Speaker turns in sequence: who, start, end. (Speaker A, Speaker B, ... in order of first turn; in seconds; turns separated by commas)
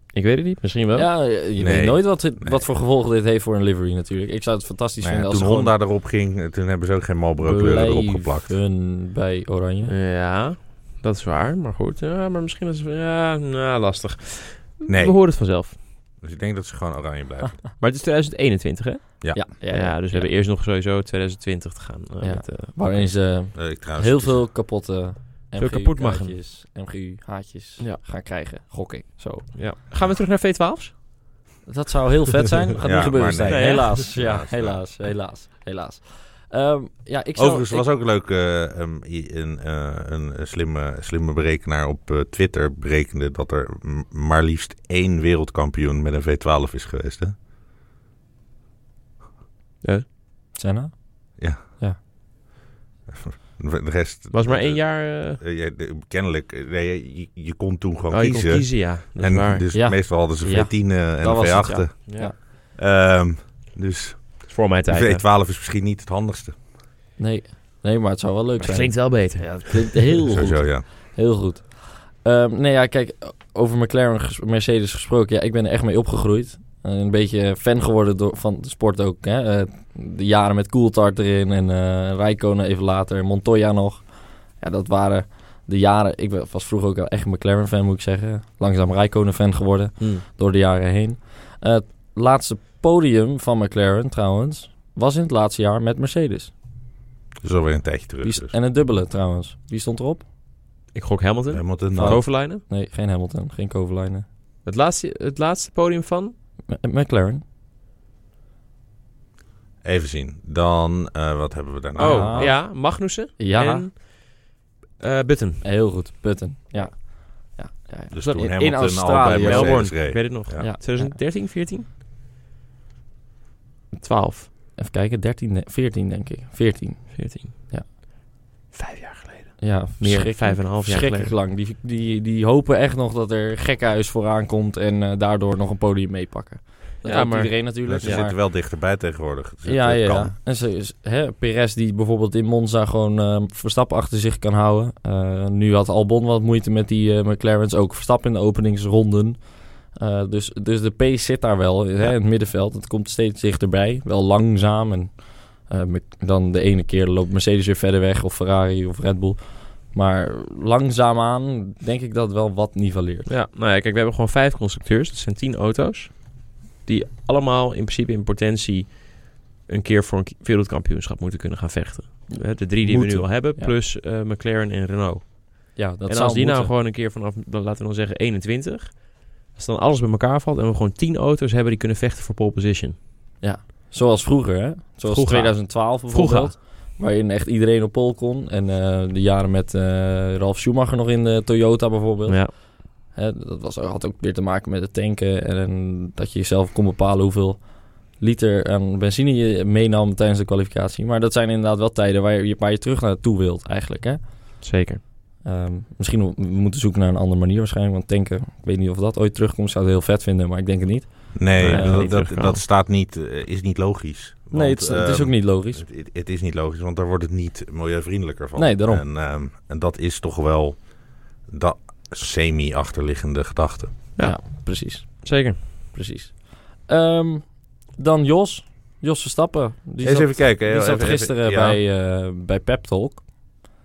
Speaker A: 0.1-1.1, Speaker B: 0.9-5.7, Speaker C: 1.6-2.6, Speaker C: 5.0-8.6, Speaker B: 7.4-9.9, Speaker A: 9.9-15.8, Speaker C: 14.9-15.2, Speaker C: 16.2-17.6, Speaker A: 17.8-23.1, Speaker B: 19.3-20.3, Speaker B: 22.2-29.5, Speaker C: 23.5-24.4, Speaker A: 25.6-26.4, Speaker A: 29.5-30.9, Speaker B: 31.6-37.9, Speaker C: 32.8-34.8, Speaker A: 33.5-34.0, Speaker C: 37.4-47.3, Speaker B: 50.5-52.0, Speaker C: 53.1-66.5, Speaker A: 54.3-55.4, Speaker A: 58.1-59.7, Speaker B: 59.7-62.4, Speaker A: 64.5-65.2, Speaker B: 67.2-96.5, Speaker A: 68.6-70.2, Speaker C: 70.3-70.8, Speaker A: 90.0-90.2, Speaker C: 97.4-98.5, Speaker B: 98.2-100.2, Speaker A: 100.9-102.6, Speaker C: 101.5-102.2, Speaker B: 101.9-104.2, Speaker A: 104.6-106.3, Speaker B: 106.7-107.4, Speaker C: 109.8-112.5, Speaker A: 112.0-114.5, Speaker B: 112.0-113.9, Speaker A: 115.0-115.6, Speaker B: 115.6-121.2, Speaker C: 118.1-120.7, Speaker A: 119.4-121.9, Speaker A: 123.9-124.5, Speaker B: 124.7-127.9, Speaker A: 127.1-127.5, Speaker A: 128.7-131.3, Speaker B: 129.6-138.4, Speaker A: 137.0-138.2, Speaker C: 137.8-140.3, Speaker B: 139.6-163.3, Speaker A: 163.2-183.0, Speaker B: 172.8-173.7, Speaker B: 175.8-176.7, Speaker B: 183.4-204.6, Speaker A: 185.1-186.6, Speaker A: 204.6-205.0, Speaker B: 205.4-212.1, Speaker C: 211.3-224.0, Speaker A: 211.6-212.6, Speaker B: 214.5-215.8, Speaker B: 218.6-219.0, Speaker A: 224.2-225.6, Speaker B: 224.2-233.7, Speaker C: 230.0-231.8